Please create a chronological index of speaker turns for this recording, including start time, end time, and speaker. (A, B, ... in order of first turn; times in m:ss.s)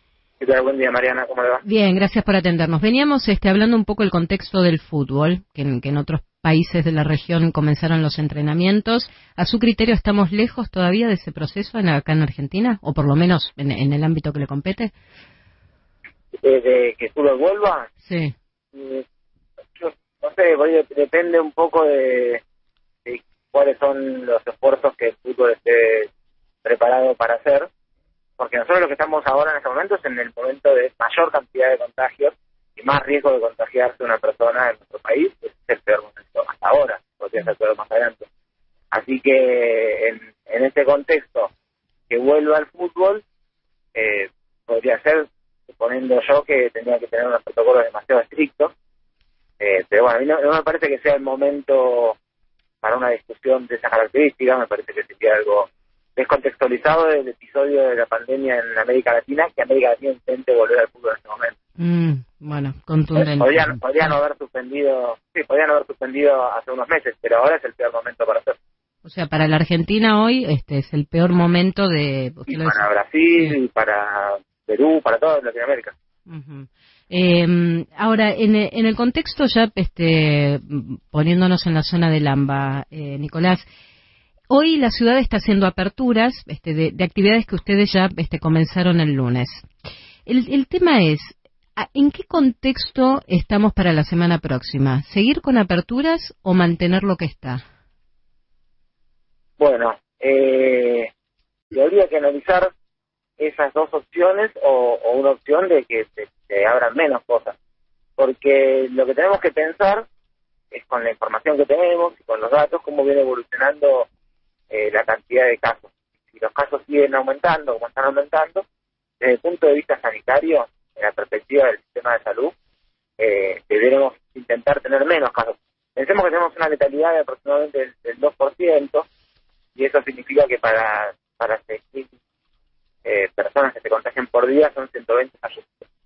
0:00.4-0:01.6 A
0:01.6-0:14.9 B
0:16.4-0:17.9 A
0:18.0-0:18.3 B
0:18.7-0:19.0 A
0:19.8-0:22.4 A
0:23.0-0:26.1 A
0:26.6-0:27.7 A
0:28.4-0:38.2 A
0:38.9-0:41.5 A
0:42.1-0:43.2 A
0:43.9-0:45.2 A
0:45.8-0:48.7 A
0:49.6-0:52.2 A
0:52.8-1:01.5 A
1:01.8-1:04.1 B
1:03.2-1:08.6 A
1:09.0-1:12.8 B
1:12.5-1:15.9 A
1:16.3-1:23.6 B
1:24.5-1:29.7 B
1:30.2-1:37.6 B
1:39.6-1:41.1 A
1:41.7-1:42.7 A
1:43.4-1:47.6 A
1:48.2-1:50.0 A
1:50.7-1:54.1 A
1:54.7-1:58.6 A
1:59.2-2:02.5 A
2:03.2-2:09.1 A
2:09.8-2:12.1 A
2:13.0-2:15.8 A